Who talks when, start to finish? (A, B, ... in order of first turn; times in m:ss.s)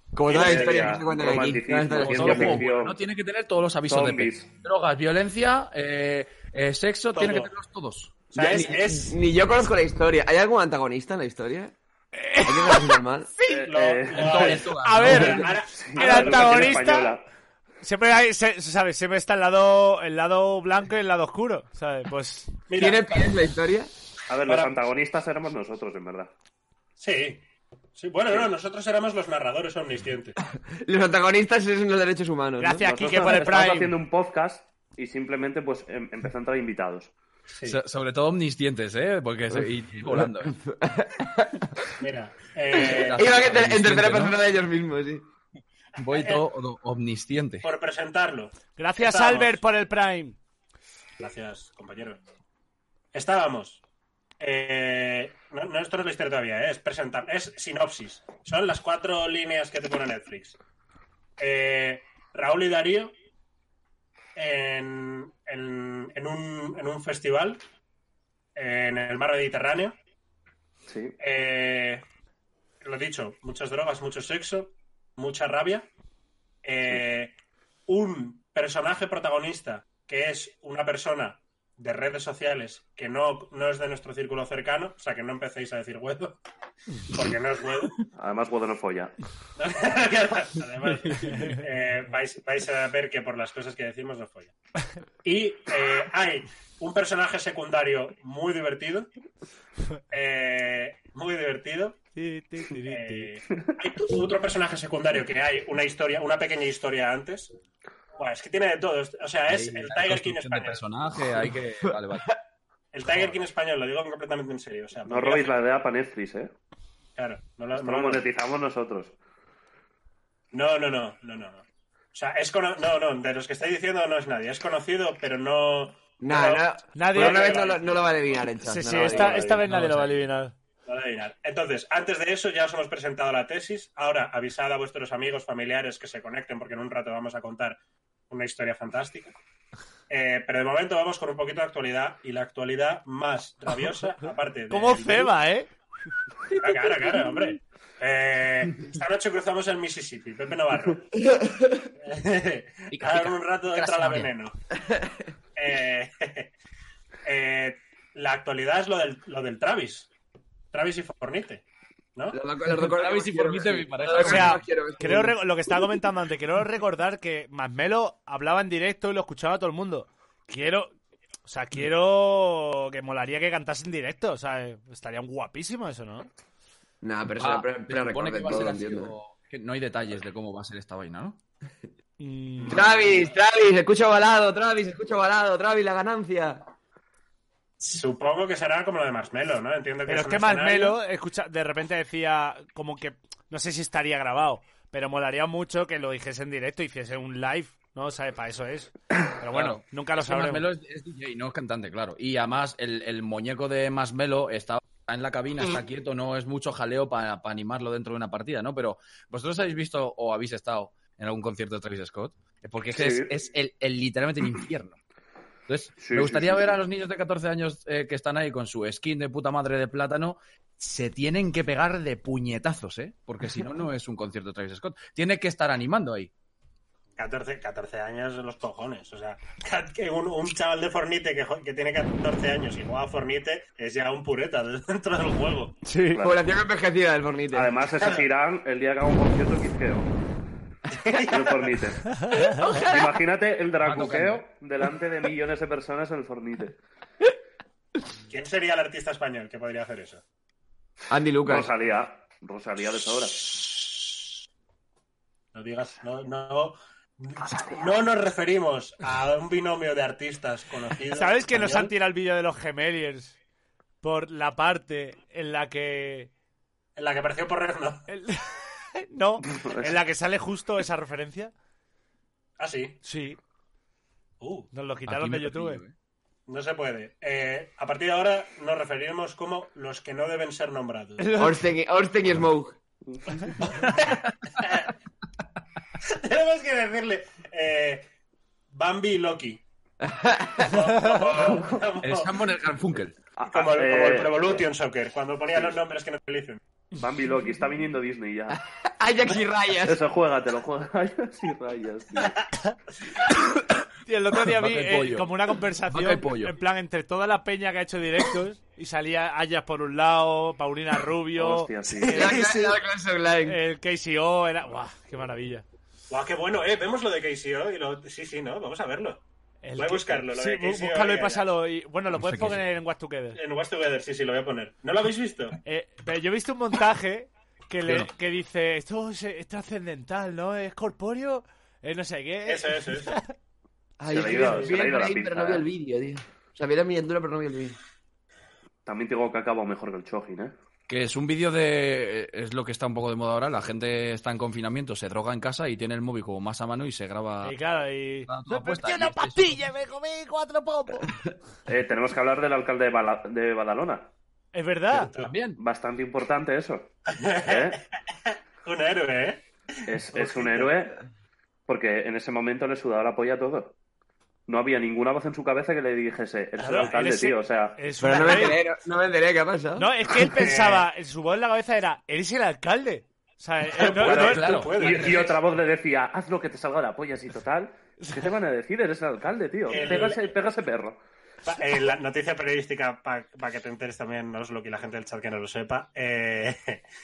0:00.1-0:02.6 A
0:00.3-0:01.0 B
0:00.3-0:03.0 C
0:01.9-0:08.3 D
0:03.9-0:04.5 C
0:07.1-0:07.5 B
0:08.3-0:09.1 B
0:08.3-0:11.7 A
0:12.1-0:13.7 E
0:12.4-0:13.3 A
0:13.5-0:14.6 C
0:13.7-0:16.8 B
0:14.1-0:15.5 D
0:14.8-0:17.1 E
0:15.7-0:17.2 C
0:17.8-0:22.6 E
0:22.7-0:23.1 B
0:22.7-0:23.9 A
0:24.3-0:26.3 C
0:24.4-0:24.7 B
0:27.0-0:27.4 B
0:28.0-0:30.4 B
0:30.8-0:32.9 A
0:32.6-0:33.9 E
0:32.8-0:37.1 C
0:37.6-0:40.5 D
0:39.5-0:41.7 A
0:42.0-0:43.4 B
0:42.7-0:45.2 A
0:42.8-0:44.4 D
0:46.0-0:47.6 D
0:46.1-0:46.4 B
0:47.6-0:49.6 B
0:48.8-0:50.4 E
0:51.2-0:52.2 B
0:53.1-0:53.8 B
0:54.4-1:00.6 B
1:01.4-1:03.1 B
1:04.4-1:07.6 B
1:08.5-1:10.0 B
1:10.9-1:11.1 C
1:11.2-1:12.0 B
1:12.8-1:15.9 B
1:16.6-1:17.3 B
1:17.9-1:26.4 B
1:27.1-1:28.0 B
1:28.1-1:29.2 C
1:29.6-1:34.5 B
1:31.2-1:31.6 E
1:35.2-1:39.1 B
1:40.1-1:42.0 B
1:42.1-1:43.3 E
1:42.9-1:47.5 B
1:48.2-1:50.8 B
1:49.5-1:52.3 D
1:51.9-1:52.3 A
1:52.9-1:55.6 B
1:53.1-1:53.4 D
1:55.1-1:56.5 C
1:57.2-1:58.2 B
1:57.7-1:59.1 C
2:00.5-2:09.6 B
2:06.2-2:09.6 A
2:06.9-2:07.5 E
2:08.7-2:10.5 E
2:09.6-2:10.2 D
2:10.8-2:17.8 B
2:18.3-2:19.3 B
2:20.1-2:25.3 B
2:24.7-2:25.7 E
2:26.5-2:31.1 B
2:31.3-2:31.7 A
2:32.0-2:34.6 B
2:32.9-2:34.3 D
2:35.5-2:36.5 B
2:37.2-2:40.1 B
2:40.7-2:41.6 B
2:42.3-2:45.4 A
2:42.7-2:44.6 D
2:44.2-2:50.9 E
2:51.4-2:56.3 E
2:57.0-2:59.1 A
2:57.4-3:01.4 D
3:02.2-3:02.9 E
3:02.6-3:03.2 B
3:02.7-3:06.6 A
3:07.8-3:11.0 B
3:10.1-3:20.6 E
3:19.5-3:35.0 D
3:32.9-3:33.3 C
3:35.7-3:46.3 D
3:36.0-3:36.8 C
3:47.2-3:55.8 B
3:55.8-3:56.2 E
3:56.1-3:56.4 C
3:56.2-3:57.7 A
3:57.5-4:00.1 C
4:01.0-4:01.8 B
4:01.3-4:06.8 C
4:03.8-4:04.4 D
4:08.3-4:10.2 B
4:11.1-4:11.7 A
4:11.5-4:13.9 C
4:15.5-4:21.9 B
4:21.1-4:23.3 E
4:24.0-4:26.3 E
4:27.0-4:28.0 B
4:28.1-4:31.5 E
4:29.5-4:29.9 C
4:32.6-4:33.0 B
4:33.0-4:33.4 E
4:34.4-4:34.7 B
4:34.7-4:35.8 E
4:35.0-4:35.9 D
4:36.5-4:41.4 B
4:41.2-4:41.6 E
4:41.4-4:42.8 A
4:43.6-4:44.9 B
4:46.0-4:48.1 B
4:48.7-4:49.6 B
4:50.0-4:50.7 A
4:50.6-4:52.4 B
4:51.4-4:51.8 C
4:52.0-4:53.2 D
4:53.4-4:54.7 C
4:53.5-4:56.6 B
4:55.5-4:55.8 C
4:57.0-4:58.6 C
4:58.5-5:00.0 A
4:59.8-5:02.4 C
5:04.0-5:12.7 E
5:04.4-5:05.3 D
5:05.9-5:06.5 D
5:11.4-5:12.4 C
5:12.0-5:13.6 A
5:13.4-5:15.6 E
5:16.1-5:19.2 B
5:19.6-5:23.4 E
5:19.8-5:21.4 B
5:22.1-5:22.6 D
5:23.3-5:25.6 B
5:25.6-5:33.3 E
5:32.4-5:33.2 B
5:34.0-5:37.8 A
5:34.1-5:35.6 C
5:38.8-5:40.5 C
5:40.9-5:47.6 D
5:47.4-5:51.1 E
5:48.3-5:49.6 D
5:51.7-5:54.1 C
5:54.5-5:55.1 E
5:54.9-5:55.3 B
5:55.2-5:55.6 D
5:55.6-5:56.9 C
5:57.1-5:57.7 B
5:57.4-5:57.8 C
5:58.6-5:59.4 B
5:59.8-6:01.0 C
6:01.7-6:03.7 C
6:04.5-6:07.7 C
6:06.6-6:08.6 E
6:06.6-6:06.9 B
6:08.0-6:10.2 A
6:09.8-6:14.6 E
6:10.3-6:10.8 B
6:13.8-6:15.4 B
6:13.9-6:21.0 C
6:14.1-6:15.1 D
6:19.7-6:20.3 B
6:21.4-6:26.8 B